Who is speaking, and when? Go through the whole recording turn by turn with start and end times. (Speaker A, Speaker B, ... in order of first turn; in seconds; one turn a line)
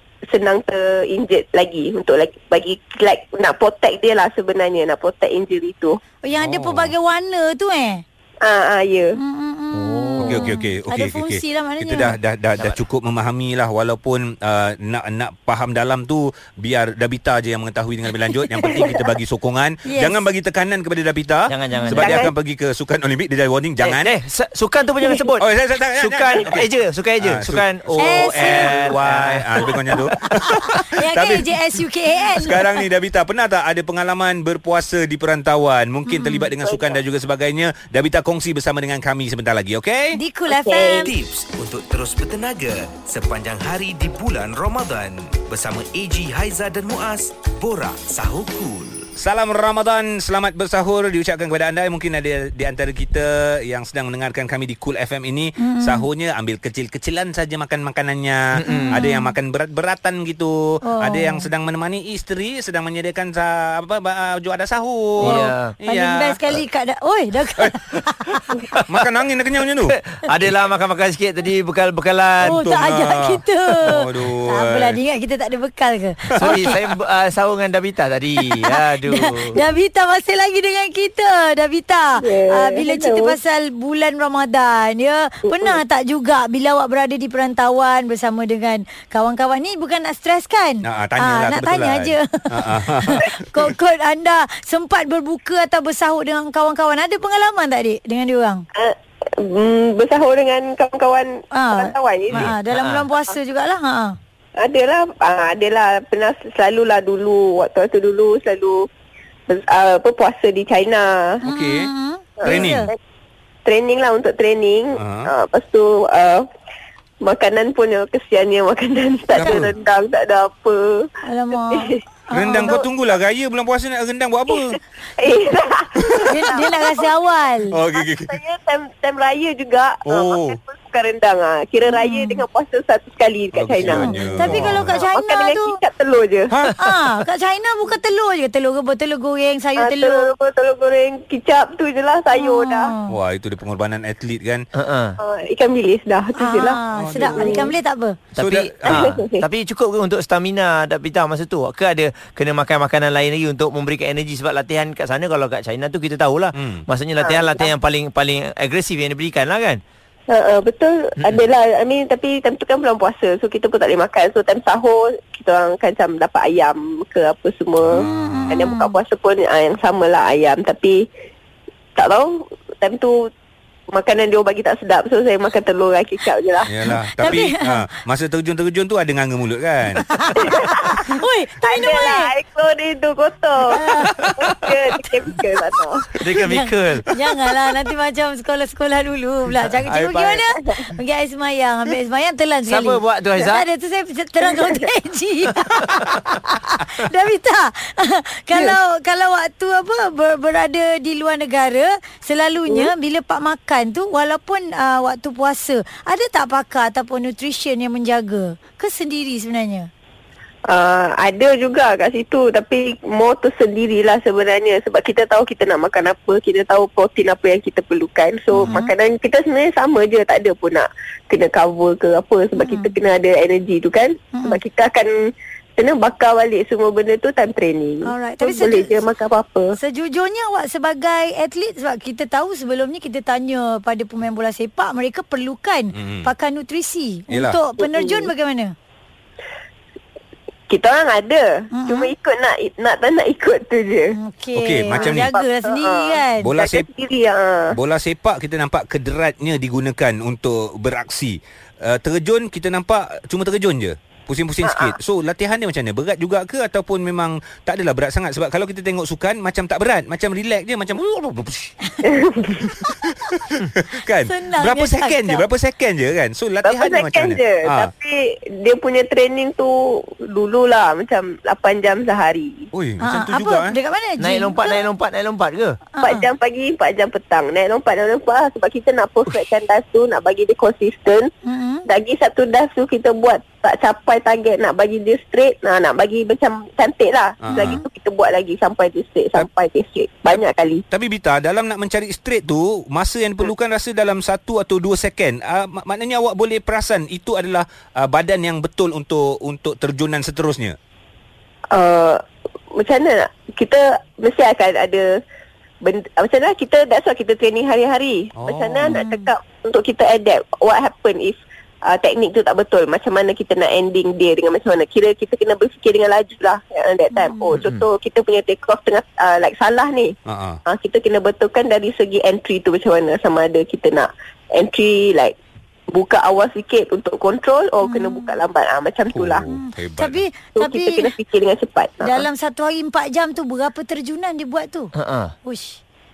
Speaker A: 0.3-6.0
Speaker B: 6.2-8.0
Speaker C: 6.4-6.9
Speaker A: 8.4-9.2
Speaker B: 9.2-12.2
Speaker D: 9.8-10.5
Speaker C: 10.2-24.1
Speaker D: 12.6-12.8
Speaker A: 18.6-19.1
Speaker B: 19.9-20.2
Speaker D: 21.5-22.3
Speaker A: 21.9-22.3
Speaker D: 23.8-30.1
Speaker C: 25.4-26.7
Speaker C: 27.2-31.5
Speaker B: 28.0-28.9
Speaker B: 30.6-32.8
Speaker C: 32.3-40.2
Speaker B: 36.1-36.5
Speaker A: 36.6-37.0
Speaker B: 40.1-41.1
Speaker A: 40.5-41.1
Speaker E: 41.0-49.1
Speaker C: 49.2-66.6
Speaker B: 55.6-56.1
Speaker D: 58.5-59.0
Speaker B: 58.6-59.3
Speaker B: 60.8-61.5
Speaker B: 65.2-68.6
Speaker D: 65.2-65.7
Speaker D: 68.7-69.0
Speaker C: 68.8-70.0
Speaker D: 69.8-72.6
Speaker C: 72.4-75.0
Speaker B: 72.4-76.7
Speaker C: 76.3-76.8
Speaker D: 76.4-79.6
Speaker B: 78.4-98.6
Speaker A: 82.2-83.3
Speaker A: 85.5-85.8
Speaker C: 90.8-93.7
Speaker A: 98.7-102.5
Speaker B: 101.5-104.2
Speaker D: 102.3-103.1
Speaker A: 104.6-108.9
Speaker A: 109.5-111.4
Speaker C: 111.4-111.9
Speaker B: 111.4-112.9
Speaker A: 112.4-113.0
Speaker C: 112.4-112.8
Speaker A: 113.7-116.5
Speaker C: 115.0-115.3
Speaker A: 117.2-121.1
Speaker C: 119.3-119.7
Speaker B: 119.4-119.7
Speaker B: 121.2-122.8
Speaker A: 121.7-122.0
Speaker C: 122.3-124.8
Speaker A: 122.5-122.8
Speaker A: 124.5-127.1
Speaker C: 126.0-126.3
Speaker B: 126.3-127.8
Speaker C: 127.7-128.4
Speaker A: 127.9-136.5
Speaker C: 130.1-130.6
Speaker B: 131.8-132.4
Speaker C: 133.5-135.0
Speaker B: 133.8-135.8
Speaker B: 136.8-140.3
Speaker A: 139.8-142.9
Speaker B: 142.3-143.2
Speaker C: 143.1-144.6
Speaker D: 144.7-145.2
Speaker A: 145.2-146.8
Speaker B: 146.3-148.2
Speaker C: 146.9-147.7
Speaker A: 147.3-147.7
Speaker D: 148.3-159.8
Speaker C: 148.4-149.2
Speaker A: 148.9-149.4
Speaker C: 156.6-156.8
Speaker A: 157.2-157.7
Speaker A: 160.3-171.1
Speaker C: 167.8-168.7
Speaker B: 168.0-169.0
Speaker A: 172.0-173.3
Speaker A: 173.9-176.7
Speaker C: 176.7-180.0
Speaker B: 176.8-177.8
Speaker B: 179.9-182.3
Speaker A: 180.3-183.8
Speaker B: 183.7-184.3
Speaker C: 184.1-184.5
Speaker A: 184.3-186.1
Speaker D: 186.2-187.1
Speaker B: 186.4-209.9
Speaker C: 189.9-190.3
Speaker D: 192.7-193.6
Speaker A: 210.7-229.8
Speaker B: 218.5-218.9
Speaker B: 222.6-222.9
Speaker B: 224.3-224.6
Speaker B: 228.0-229.0
Speaker B: 229.7-238.7
Speaker C: 235.9-236.3
Speaker C: 237.3-237.6
Speaker A: 237.8-238.3
Speaker A: 240.7-244.1
Speaker B: 241.7-242.1
Speaker B: 244.1-246.5
Speaker C: 244.5-245.3
Speaker A: 244.9-247.8
Speaker C: 246.4-246.9
Speaker C: 247.7-261.8
Speaker A: 254.6-254.9
Speaker A: 262.0-262.8
Speaker C: 262.7-267.9
Speaker B: 264.2-265.4
Speaker A: 266.6-272.7
Speaker C: 272.7-273.8
Speaker B: 273.0-274.8
Speaker D: 274.2-275.8
Speaker B: 275.9-276.3
Speaker A: 276.0-281.3
Speaker B: 281.4-281.9
Speaker A: 281.9-290.8
Speaker C: 287.4-287.8
Speaker B: 287.5-287.9
Speaker C: 290.3-300.8
Speaker A: 301.7-302.2
Speaker A: 302.7-305.2
Speaker A: 305.8-320.1
Speaker C: 308.4-309.0
Speaker B: 308.8-309.3
Speaker B: 317.1-317.6
Speaker D: 317.5-317.8
Speaker C: 320.3-320.6
Speaker A: 320.6-325.3
Speaker A: 325.9-329.4
Speaker B: 327.8-328.4
Speaker C: 329.1-330.2
Speaker B: 329.4-331.1
Speaker A: 330.5-332.2
Speaker B: 332.0-334.9
Speaker D: 334.9-335.3
Speaker B: 335.4-335.8